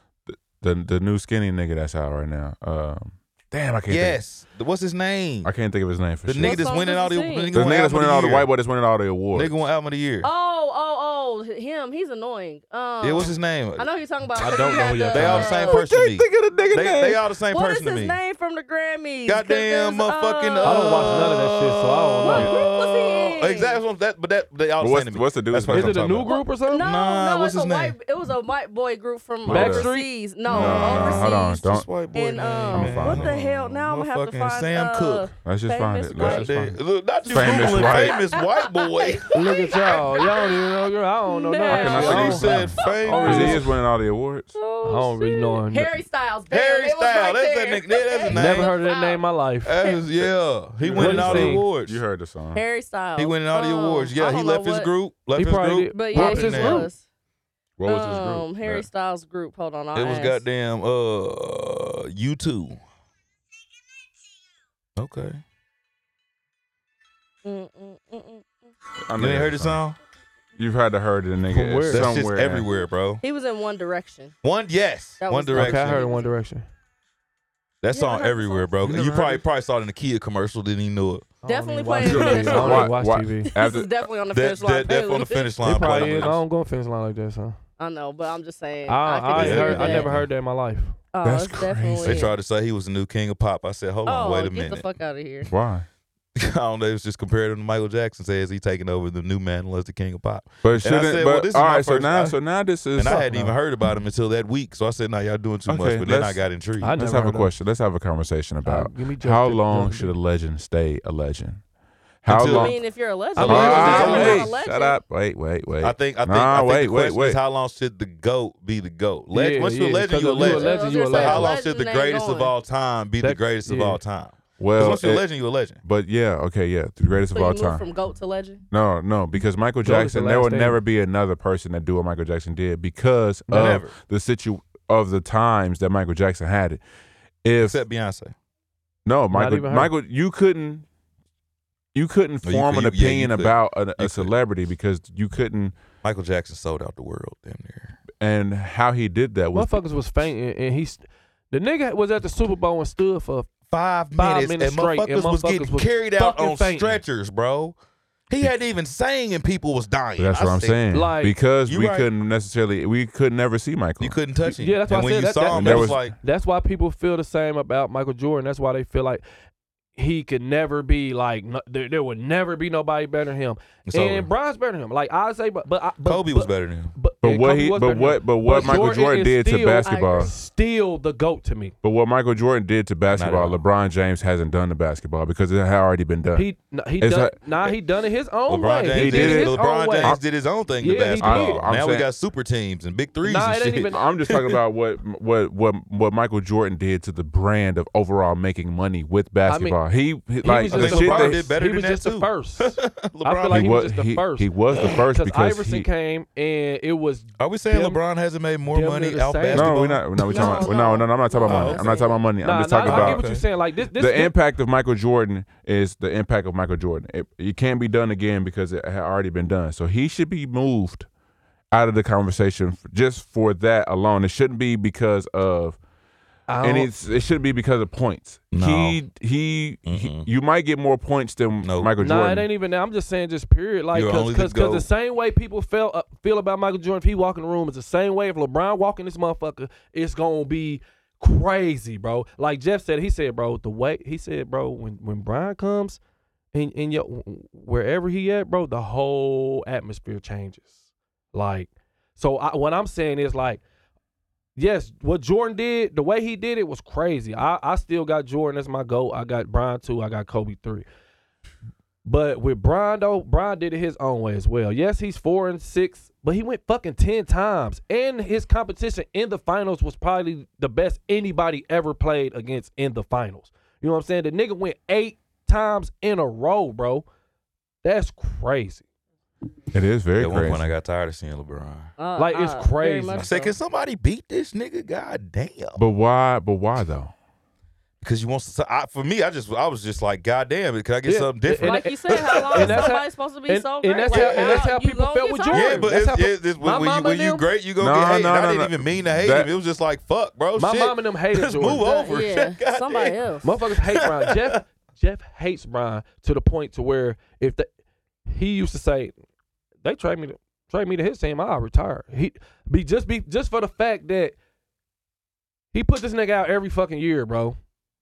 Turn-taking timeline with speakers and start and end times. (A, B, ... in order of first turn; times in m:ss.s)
0:00.3-0:04.2 A
0:03.9-0:05.5 B
0:05.4-0:06.6 A
0:06.2-0:08.5 B
0:06.4-0:07.5 C
0:07.5-0:09.5 A
0:09.3-0:10.3 B
0:10.2-0:15.8 C
0:13.0-0:13.8 B
0:14.4-0:15.6 D
0:15.1-0:18.2 B
0:15.6-0:17.2 A
0:17.5-0:21.3 C
0:19.2-0:28.0 B
0:20.6-0:22.5 D
0:22.2-0:23.8 C
0:24.8-0:26.3 A
0:25.7-0:26.9 D
0:26.3-0:36.5 C
0:29.4-0:29.9 A
0:29.4-0:30.1 D
0:30.5-0:35.3 B
0:30.5-0:31.9 A
0:32.7-0:33.3 A
0:35.4-0:38.2 A
0:36.1-0:40.0 B
0:37.3-0:43.5 C
0:39.3-0:43.7 D
0:41.7-0:44.5 A
0:41.9-0:43.6 B
0:44.5-0:49.2 C
0:44.8-0:45.9 D
0:46.5-0:48.7 B
0:48.3-0:49.8 D
0:49.6-0:52.0 B
0:50.8-0:52.6 A
0:50.9-0:51.7 D
0:52.5-0:54.9 C
0:53.2-0:56.9 B
0:55.3-0:56.9 D
0:55.9-0:57.0 C
0:57.8-0:58.8 A
0:57.8-1:00.4 C
0:59.9-1:02.8 B
1:05.0-1:05.4 B
1:07.4-1:08.7 C
1:09.1-1:09.8 A
1:09.2-1:10.0 B
1:10.6-1:12.6 A
1:11.5-1:12.1 D
1:11.9-1:13.2 B
1:13.2-1:14.3 C
1:14.4-1:16.0 B
1:15.2-1:16.3 C
1:15.5-1:16.6 D
1:17.8-1:21.3 B
1:17.9-1:18.7 C
1:18.8-1:19.4 A
1:21.4-1:23.5 D
1:21.4-1:22.9 C
1:22.0-1:23.9 A
1:22.1-1:22.8 B
1:23.5-1:25.5 C
1:24.3-1:26.4 B
1:25.6-1:27.6 D
1:27.8-1:30.1 C
1:28.9-1:31.0 D
1:29.3-1:30.3 B
1:31.1-1:32.3 C
1:31.2-1:32.3 A
1:32.0-1:34.9 B
1:34.0-1:35.5 C
1:35.5-1:35.8 A
1:36.3-1:42.4 B
1:40.6-1:43.4 A
1:42.9-1:46.9 B
1:43.1-1:43.5 D
1:45.7-1:46.4 A
1:46.8-1:47.5 D
1:46.9-1:51.6 A
1:48.6-1:50.2 D
1:52.2-1:52.8 A
1:52.3-1:52.7 B
1:52.4-1:55.0 C
1:53.4-1:54.5 D
1:53.4-1:54.5 B
1:53.4-1:57.4 A
1:55.8-2:05.8 B
1:59.3-2:01.6 D
2:00.4-2:02.5 C
2:03.2-2:04.0 D
2:04.6-2:05.2 A
2:05.8-2:07.8 A
2:07.3-2:08.6 C
2:08.7-2:16.8 A
2:09.8-2:10.8 D
2:13.5-2:13.8 D
2:13.5-2:13.9 B
2:17.4-2:17.8 A
2:17.6-2:18.3 B
2:19.0-2:20.8 A
2:19.3-2:19.9 D
2:21.9-2:25.7 A
2:22.4-2:24.3 B
2:26.0-2:28.0 B
2:28.2-2:29.8 A
2:29.5-2:33.5 D
2:33.7-2:37.8 B
2:34.2-2:37.0 D
2:38.3-2:40.9 B
2:40.2-2:44.2 A
2:40.9-2:41.3 D
2:41.6-2:42.1 B
2:44.0-2:46.1 B
2:44.6-2:49.2 D
2:45.5-2:46.0 A
2:50.0-3:01.8 D
2:53.9-2:54.3 B
2:56.0-2:56.9 B
2:57.2-3:00.3 A
2:59.8-3:00.3 C
3:01.8-3:06.5 A
3:03.1-3:03.6 B
3:06.3-3:10.2 D
3:07.0-3:07.4 A
3:08.5-3:14.6 B
3:08.9-3:10.2 A
3:10.8-3:11.6 D
3:11.0-3:12.1 A
3:13.2-3:14.0 D
3:13.9-3:21.5 A
3:19.4-3:19.8 D
3:20.4-3:28.0 D
3:20.7-3:23.8 B
3:23.5-3:25.9 A
3:24.7-3:25.0 B
3:27.4-3:30.8 B
3:28.7-3:29.8 D
3:29.5-3:33.3 A
3:30.3-3:32.2 C
3:31.4-3:32.0 B
3:32.4-3:34.3 D
3:32.8-3:33.4 B
3:34.0-3:41.1 A
3:41.7-3:45.8 A
3:46.5-3:46.9 D
3:46.6-3:52.5 A
3:48.5-3:49.0 B
3:49.8-3:50.3 B
3:51.6-3:51.9 B
3:52.0-4:06.0 D
3:53.9-3:54.9 B
4:06.5-4:10.7 D
4:11.3-4:13.6 D
4:14.6-4:20.8 D
4:22.0-4:37.0 D
4:37.8-4:38.8 D
4:39.7-4:40.6 A
4:40.2-4:41.9 B
4:42.0-4:43.5 C
4:42.2-4:43.3 D
4:43.2-4:45.8 B
4:45.8-4:47.1 A
4:48.0-4:52.9 B
4:51.0-4:57.5 D
4:51.6-4:55.9 C
4:54.1-4:54.7 B
4:55.5-5:04.6 B
4:57.8-4:59.5 A
5:00.6-5:02.1 D
5:01.8-5:03.5 C
5:03.4-5:07.7 D
5:08.3-5:09.1 D
5:09.8-5:14.4 D
5:15.7-5:17.6 D